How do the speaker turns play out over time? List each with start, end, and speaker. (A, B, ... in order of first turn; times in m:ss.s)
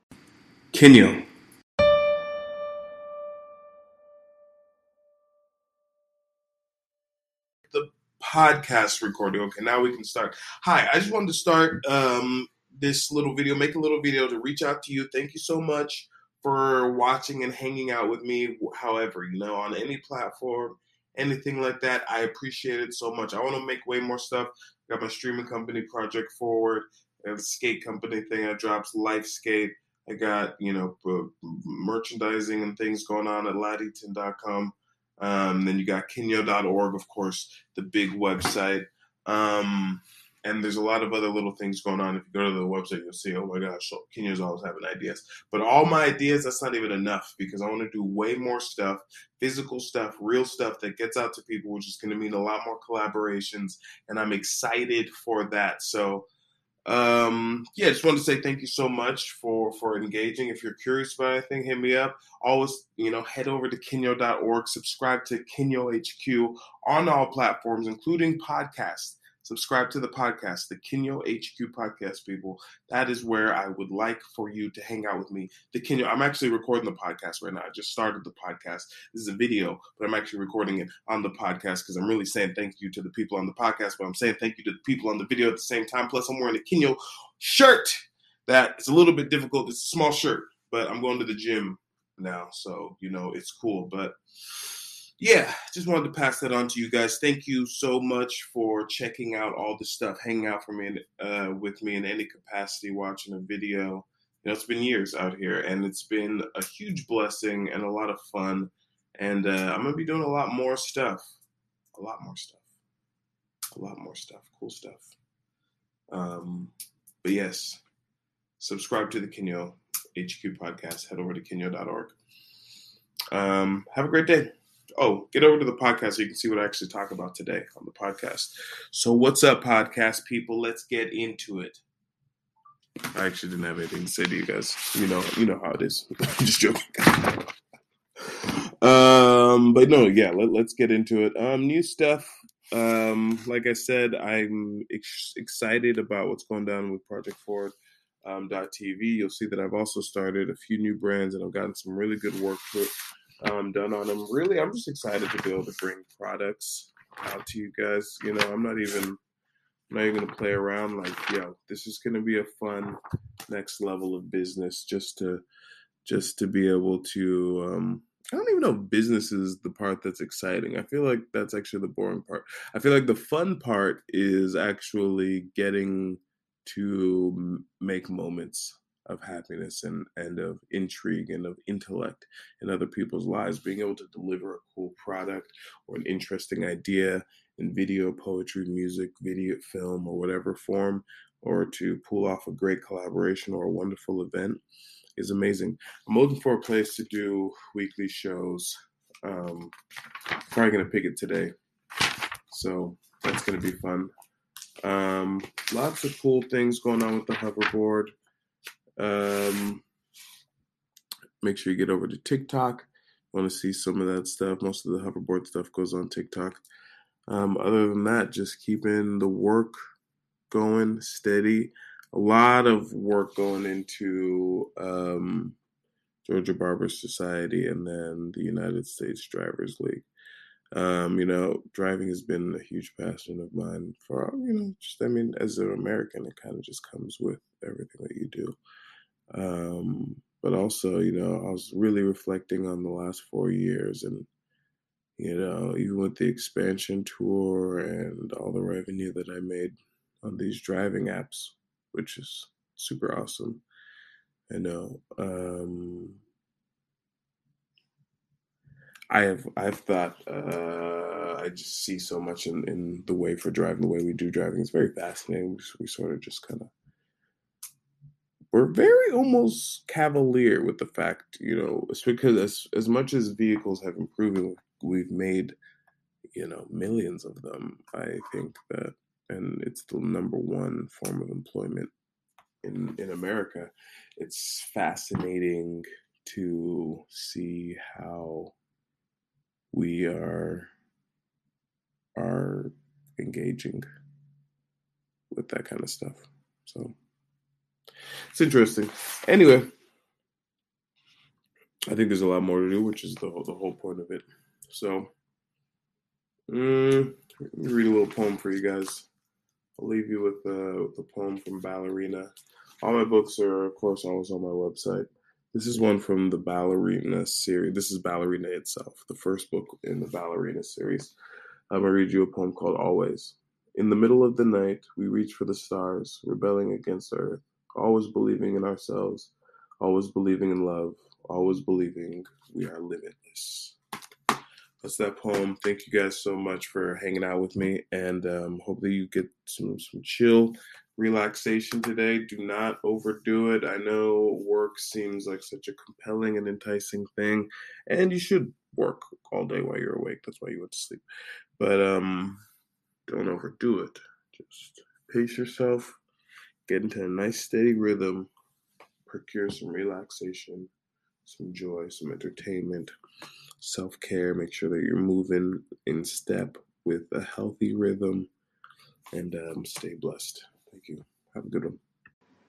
0:00.7-0:01.3 A
0:07.7-0:56.3 A
0:56.8-1:34.7 A
1:35.2-1:51.3 A
1:51.9-1:52.7 A
1:53.7-1:55.1 A
1:56.1-1:57.8 A
1:58.6-2:02.2 A
2:03.3-2:11.8 A
2:13.1-2:17.4 A
2:18.4-2:32.9 A
2:33.4-2:39.2 A
2:39.9-2:45.4 A
2:46.0-3:14.6 A
3:15.2-3:19.7 A
3:20.5-3:21.5 A
3:22.5-3:24.1 A
3:24.8-3:28.1 A
3:29.0-3:29.8 A
3:31.4-3:36.6 A
3:37.3-3:39.8 A
3:40.5-3:45.6 A
3:46.2-3:50.0 A
3:50.7-3:58.6 A
3:59.3-4:04.3 A
4:05.2-4:13.6 A
4:14.5-4:16.2 A
4:19.1-4:26.7 A
4:28.5-4:35.6 A
4:36.3-4:41.9 A
4:42.6-4:48.5 A
4:49.7-4:50.7 A
4:52.2-4:53.9 A
4:55.3-4:56.9 A
4:58.3-4:59.7 A
5:01.9-5:05.1 A
5:06.5-5:09.1 A
5:09.8-5:12.3 A
5:12.8-5:21.1 A
5:21.7-5:33.8 A
5:34.8-5:51.0 A
5:51.6-5:52.4 A
5:53.1-5:56.0 A
5:56.7-5:58.3 A
5:59.1-6:00.7 A
6:01.2-6:02.9 A
6:03.6-6:08.3 A
6:09.1-6:11.8 A